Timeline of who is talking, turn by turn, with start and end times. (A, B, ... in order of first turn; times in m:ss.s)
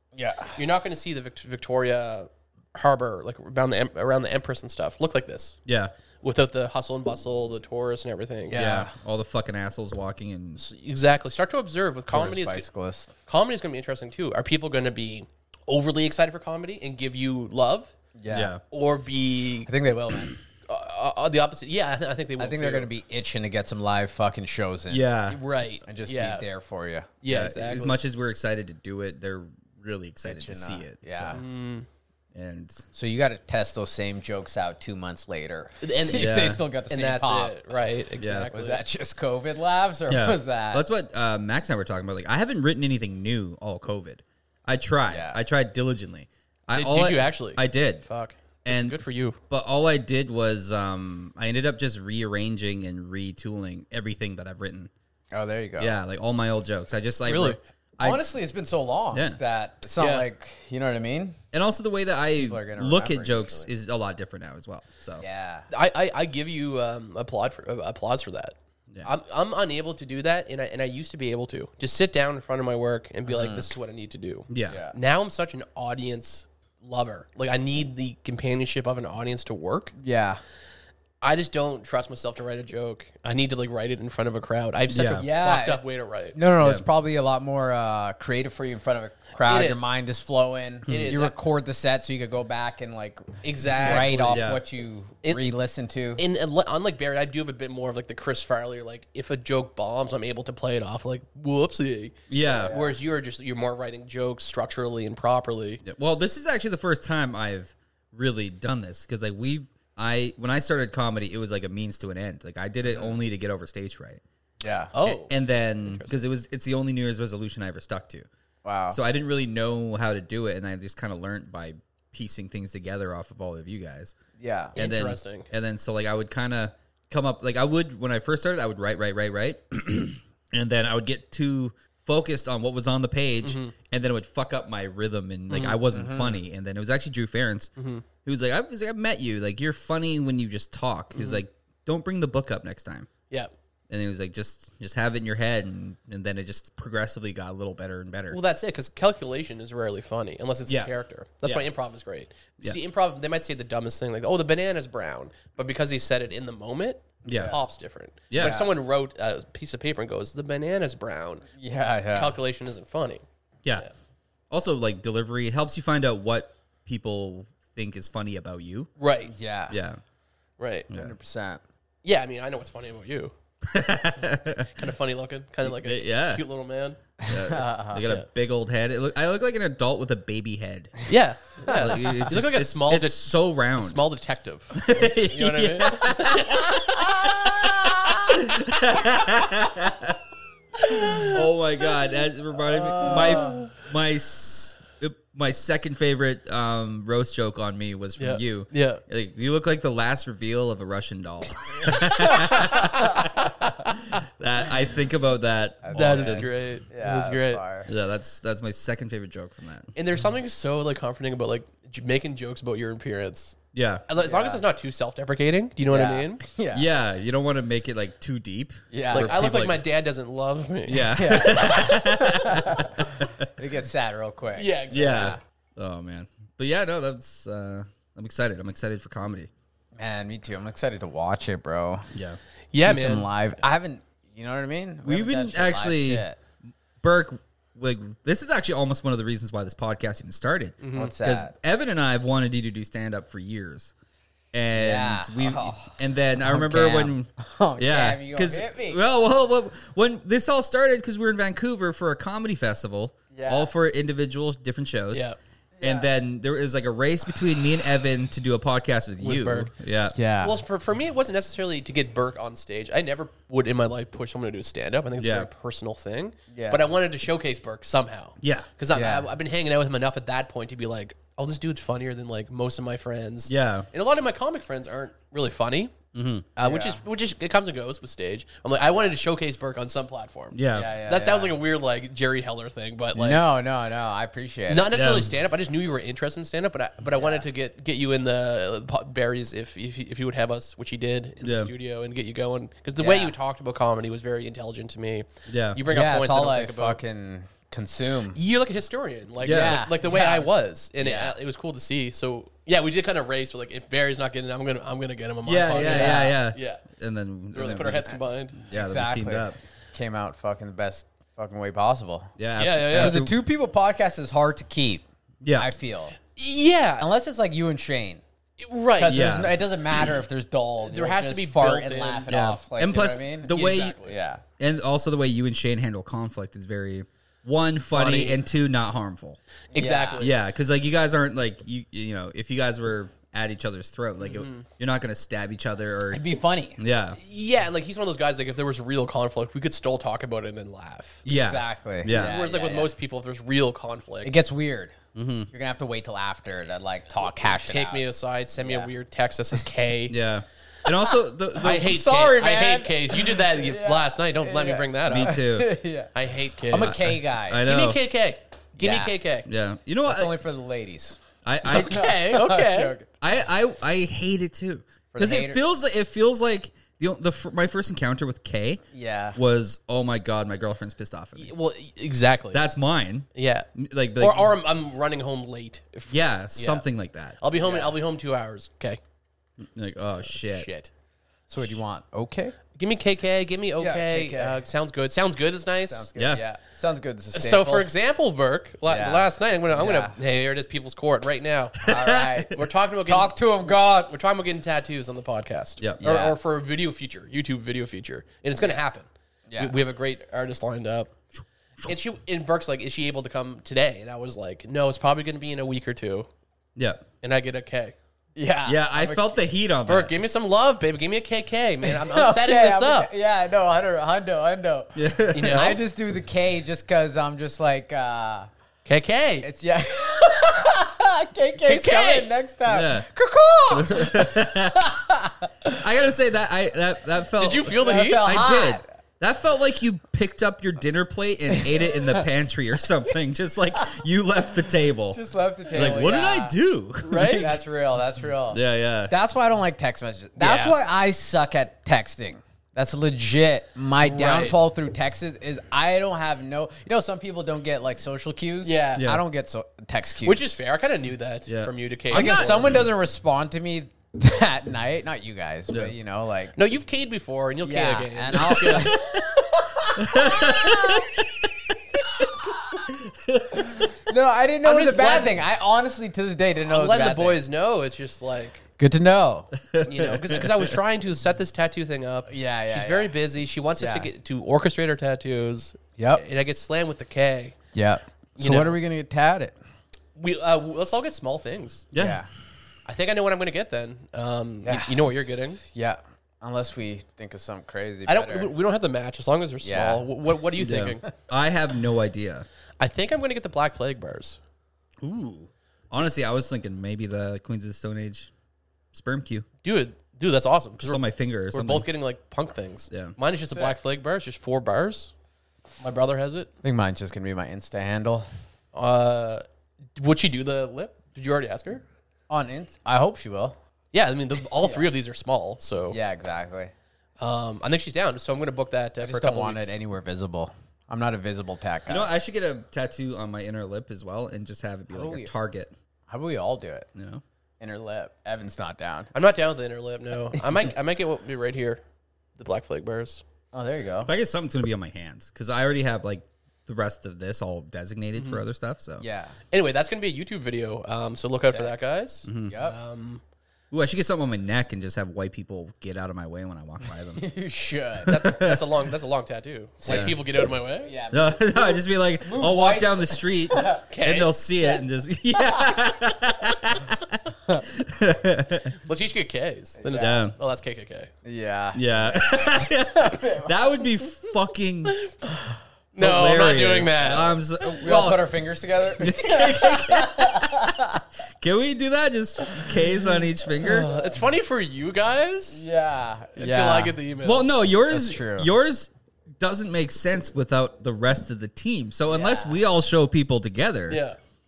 0:00.1-0:00.6 A
0:00.6-0:05.6 B
0:05.6-0:05.9 C
0:06.2-0:08.6 B
0:08.5-0:08.9 A
0:08.5-0:10.6 C
0:10.6-0:12.7 B
0:12.1-0:13.1 A
0:13.2-0:17.9 B
0:18.2-0:18.5 A
0:18.3-0:18.6 C
0:18.7-0:19.7 B
0:19.7-0:20.4 A
0:20.7-0:22.9 B
0:22.4-0:25.2 A
0:24.9-0:25.4 C
0:25.3-0:26.4 B
0:25.8-0:27.2 A
0:27.2-0:28.0 B
0:27.3-0:31.4 C
0:30.2-0:31.4 A
0:31.3-0:31.8 B
0:32.3-0:32.8 C
0:32.9-0:37.7 A
0:35.8-0:38.8 B
0:36.1-0:36.6 C
0:38.2-0:38.5 C
0:38.5-0:40.8 A
0:40.1-0:48.0 C
0:45.1-0:45.4 A
0:46.7-0:49.4 B
0:48.6-0:54.9 C
0:55.3-0:55.9 A
0:55.8-0:58.2 C
0:57.2-0:57.6 B
0:58.0-1:01.4 A
0:59.1-0:59.4 C
1:00.0-1:00.2 B
1:01.5-1:05.2 C
1:02.4-1:03.7 A
1:05.2-1:05.7 A
1:05.7-1:19.9 B
1:13.3-1:13.7 A
1:14.5-1:14.8 C
1:14.7-1:15.0 A
1:20.0-1:20.4 A
1:21.2-1:26.4 B
1:24.9-1:25.2 C
1:25.2-1:25.8 A
1:26.3-1:36.2 A
1:29.4-1:29.9 B
1:30.9-1:31.2 C
1:30.9-1:31.4 B
1:33.4-1:34.5 B
1:33.9-1:34.6 C
1:36.2-1:45.8 B
1:42.3-1:42.7 C
1:42.4-1:42.9 A
1:45.8-1:54.2 C
1:52.9-1:53.1 A
1:54.6-1:54.9 A
1:54.9-1:55.3 B
1:55.0-1:58.3 C
1:55.8-1:56.2 B
1:58.6-1:59.0 A
1:58.9-2:04.2 C
2:04.4-2:04.8 A
2:04.8-2:05.5 B
2:04.8-2:23.1 C
2:13.4-2:13.7 B
2:15.5-2:15.8 B
2:15.9-2:16.4 A
2:17.8-2:18.0 B
2:21.1-2:21.4 B
2:23.9-2:28.4 C
2:28.3-2:41.4 B
2:30.7-2:30.9 C
2:37.2-2:37.5 C
2:37.3-2:37.6 A
2:38.3-2:38.6 C
2:38.4-2:38.7 A
2:41.6-2:42.4 A
2:42.1-2:43.2 B
2:44.5-2:48.9 C
2:49.0-2:49.3 B
2:49.3-2:49.8 A
2:49.7-2:50.0 C
2:50.6-2:50.9 B
2:50.9-2:51.6 A
2:52.0-2:53.3 B
2:53.7-2:54.7 C
2:54.7-2:57.0 B
2:55.6-2:56.4 C
2:57.2-2:58.0 A
2:57.3-3:01.0 C
3:01.1-3:07.0 B
3:01.7-3:01.9 A
3:01.7-3:04.0 C
3:04.7-3:10.2 C
3:07.6-3:08.3 A
3:10.8-3:11.4 B
3:10.9-3:26.5 C
3:13.0-3:13.6 A
3:13.0-3:13.7 B
3:18.2-3:19.0 B
3:21.8-3:23.1 A
3:23.0-3:23.5 B
3:25.8-3:27.9 A
3:25.9-3:27.6 B
3:27.8-3:29.9 C
3:29.9-3:33.6 B
3:33.7-3:34.0 C
3:34.1-3:36.4 B
3:34.2-3:34.6 A
3:35.9-3:36.9 A
3:36.7-3:39.8 C
3:38.9-3:39.4 A
3:39.1-3:41.6 B
3:40.9-3:43.5 C
3:41.1-3:45.4 A
3:44.6-3:45.4 B
3:44.9-3:49.5 C
3:50.0-3:52.0 A
3:52.7-3:53.3 B
3:52.8-3:56.4 A
3:55.0-3:56.2 C
3:57.0-4:03.9 C
4:00.8-4:01.1 B
4:00.9-4:01.5 A
4:04.5-4:15.2 C
4:04.7-4:09.0 A
4:13.3-4:13.7 A
4:15.8-4:16.1 A
4:15.8-4:20.2 C
4:19.2-4:19.7 B
4:20.1-4:20.6 A
4:20.4-4:35.9 B
4:25.2-4:25.5 C
4:26.5-4:26.9 A
4:28.4-4:28.7 C
4:28.9-4:29.3 A
4:33.5-4:33.9 C
4:36.1-4:36.5 C
4:36.6-4:43.4 B
4:36.6-4:37.0 A
4:40.5-4:40.9 C
4:40.7-4:41.5 A
4:43.1-4:45.0 A
4:44.7-4:57.0 B
4:44.9-4:45.3 C
4:47.1-4:47.4 A
4:51.4-4:51.7 C
4:53.0-4:53.3 A
4:55.5-4:55.8 C
4:55.8-4:58.4 A
4:58.3-5:06.8 B
4:59.4-4:59.8 C
4:59.4-5:00.5 A
5:01.0-5:01.4 A
5:05.4-5:09.6 C
5:05.7-5:06.4 A
5:07.5-5:08.6 B
5:08.7-5:12.3 A
5:12.4-5:13.3 C
5:12.6-5:13.2 B
5:12.9-5:15.0 A
5:15.4-5:15.7 C
5:15.6-5:16.2 A
5:16.4-5:17.1 B
5:17.0-5:18.2 A
5:18.6-5:19.4 B
5:19.0-5:24.4 A
5:19.1-5:19.7 C
5:20.9-5:22.3 B
5:22.3-5:24.0 C
5:23.5-5:24.1 B
5:24.6-5:29.4 C
5:27.9-5:28.4 B
5:29.7-5:30.3 A
5:29.7-5:30.3 B
5:30.2-5:36.2 C
5:34.2-5:34.6 B
5:36.1-5:36.8 A
5:36.8-5:37.2 C
5:37.2-5:41.2 B
5:41.2-5:42.4 C
5:41.2-5:42.9 A
5:42.1-5:44.3 B
5:44.2-5:45.0 A
5:45.1-5:45.5 C
5:45.5-5:48.0 A
5:47.5-5:50.1 B
5:48.6-5:48.9 A
5:50.1-5:52.0 C
5:51.6-5:55.4 B
5:51.6-5:57.6 A
5:55.1-5:55.7 C
5:56.1-5:57.1 B
5:56.8-5:58.0 C
5:57.6-5:59.5 B
5:58.8-5:59.1 A
5:59.4-6:00.4 C
6:00.0-6:03.1 A
6:01.4-6:02.1 C
6:01.8-6:03.0 B
6:03.2-6:08.8 C
6:05.1-6:05.6 A
6:08.9-6:09.4 A
6:09.3-6:11.5 C
6:11.4-6:12.6 B
6:12.5-6:14.5 C
6:13.3-6:16.8 B
6:16.1-6:17.4 C
6:17.4-6:19.0 B
6:17.6-6:18.0 A
6:19.6-6:20.7 C
6:20.3-6:20.9 B
6:21.5-6:22.6 A
6:22.7-6:26.1 B
6:23.8-6:24.6 A
6:25.8-6:27.9 A
6:26.2-6:26.4 C
6:27.3-6:41.1 B
6:28.9-6:30.2 A
6:31.8-6:34.1 A
6:31.8-6:32.5 C
6:36.0-6:36.4 A
6:39.5-6:39.8 A
6:41.8-6:46.3 B
6:46.8-6:47.0 C
6:47.2-6:47.9 B
6:48.3-6:49.4 A
6:48.6-6:50.1 C
6:49.8-6:53.1 B
6:51.8-6:58.5 A
6:55.0-6:55.7 C
6:55.3-6:55.8 B
6:58.8-6:59.5 B
6:59.4-7:05.8 A
7:01.6-7:02.3 B
7:02.7-7:03.1 C
7:03.7-7:04.9 C
7:05.6-7:15.2 C
7:07.4-7:08.3 B
7:07.7-7:08.8 A
7:11.5-7:12.2 A
7:15.1-7:16.6 A
7:15.7-7:17.6 C
7:17.0-7:17.6 B
7:17.2-7:30.6 A
7:18.5-7:19.1 C
7:20.4-7:20.8 B
7:24.0-7:24.6 B
7:28.6-7:29.0 B
7:30.2-7:32.8 B
7:31.5-7:32.8 C
7:32.1-7:36.6 A
7:36.5-7:39.0 B
7:37.6-7:41.2 A
7:38.8-7:39.3 C
7:39.9-7:41.5 C
7:42.5-7:42.8 A
7:42.8-7:43.9 C
7:43.8-7:47.4 A
7:44.6-7:45.4 B
7:46.6-7:48.6 B
7:48.8-7:49.5 A
7:49.6-7:50.7 C
7:49.8-7:57.6 B
7:52.3-7:53.1 A
7:53.8-7:54.1 A
7:56.0-7:56.2 A
7:57.7-7:59.6 A
7:58.4-7:58.8 B
8:00.2-8:01.9 B
8:01.9-8:02.2 C
8:02.0-8:02.3 A
8:02.8-8:05.6 B
8:04.6-8:08.5 A
8:08.1-8:11.0 B
8:09.6-8:10.1 A
8:10.6-8:12.4 C
8:12.8-8:14.4 B
8:15.0-8:18.3 C
8:18.9-8:19.4 C
8:19.6-8:25.1 B
8:20.8-8:21.9 C
8:22.9-8:23.1 C
8:25.8-8:26.5 B
8:26.6-8:28.3 A
8:28.7-8:29.4 B
8:30.0-8:31.8 B
8:32.3-8:33.6 A
8:33.9-8:36.0 B
8:34.6-8:34.9 A
8:35.9-8:36.7 A
8:37.2-8:39.7 B
8:39.0-8:42.1 A
8:41.9-8:45.7 C
8:44.9-8:45.3 A
8:46.1-8:46.9 A
8:46.9-8:47.2 C
8:47.6-8:49.1 A
8:49.1-8:51.8 B
8:52.4-8:53.2 B
8:53.5-8:54.1 A
8:54.0-8:59.0 C
8:58.1-8:58.4 B
8:59.0-8:59.3 A
8:59.5-9:03.2 B
9:01.4-9:01.7 A
9:02.2-9:02.6 C
9:02.4-9:02.8 A
9:03.7-9:07.3 C
9:07.2-9:08.2 A
9:08.0-9:08.7 C
9:08.1-9:10.9 B
9:09.8-9:10.2 A
9:09.8-9:10.2 C
9:10.8-9:13.8 A
9:11.1-9:18.8 C
9:13.9-9:14.3 B
9:18.8-9:21.1 B
9:19.8-9:20.2 A
9:20.0-9:20.3 C
9:21.2-9:23.5 A
9:21.7-9:25.0 C
9:25.9-9:27.3 B
9:26.0-9:28.3 C
9:27.0-9:31.0 A
9:29.0-9:30.9 C
9:31.4-9:33.9 C
9:33.6-9:35.6 B
9:35.5-9:37.0 A
9:36.4-9:37.5 B
9:37.2-9:44.0 C
9:37.9-9:38.5 A
9:42.1-9:42.6 A
9:43.9-9:44.2 B